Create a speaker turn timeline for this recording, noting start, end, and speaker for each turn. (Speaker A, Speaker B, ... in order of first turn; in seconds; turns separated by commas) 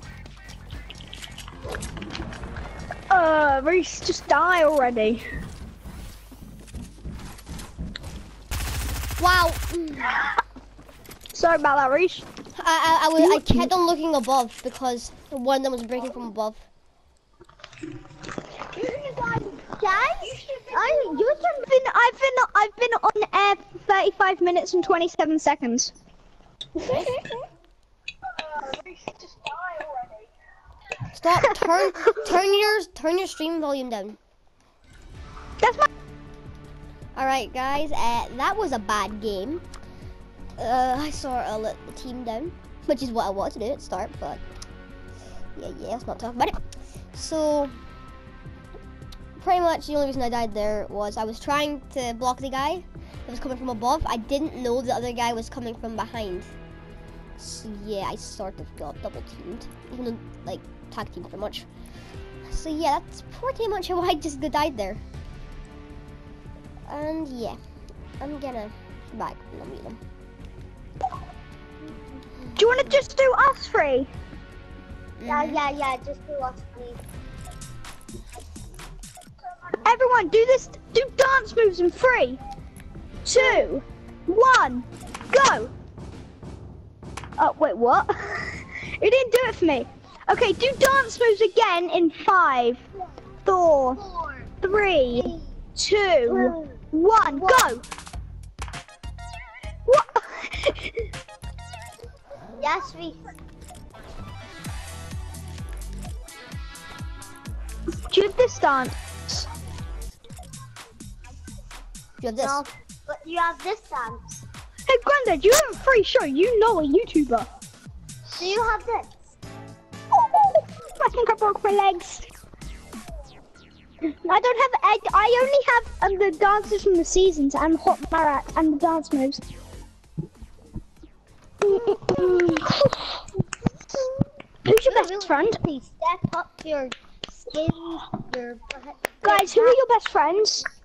Speaker A: 3.1-5.2, Speaker B: 9.2-10.2, Speaker A: 11.3-12.2, Speaker B: 12.6-16.7, Speaker A: 13.2-13.7, Speaker C: 18.7-21.7, Speaker A: 20.2-25.9, Speaker B: 31.1-34.2, Speaker A: 35.6-35.9, Speaker B: 37.1-39.6, Speaker B: 40.6-44.4, Speaker B: 45.6-46.6, Speaker B: 47.1-47.8, Speaker B: 49.4-56.5, Speaker B: 57.4-61.7, Speaker B: 62.5-65.0, Speaker B: 66.9-67.6, Speaker B: 68.2-70.0, Speaker A: 72.6-74.1, Speaker B: 75.2-75.6, Speaker C: 75.3-77.0, Speaker A: 79.8-82.4, Speaker A: 83.2-85.7, Speaker C: 83.3-83.7, Speaker A: 87.4-92.8, Speaker A: 93.5-94.0, Speaker C: 94.0-94.5, Speaker A: 94.6-97.8, Speaker C: 95.1-95.4, Speaker C: 96.3-97.7, Speaker A: 99.9-100.9, Speaker C: 102.6-103.3, Speaker A: 108.1-109.5, Speaker B: 112.2-112.6, Speaker C: 112.4-114.4, Speaker A: 114.9-117.5, Speaker C: 118.4-119.1, Speaker A: 120.1-122.3, Speaker A: 124.1-129.4, Speaker C: 131.6-132.8, Speaker A: 131.7-133.2, Speaker A: 134.7-135.6, Speaker C: 134.8-139.8, Speaker A: 139.2-140.7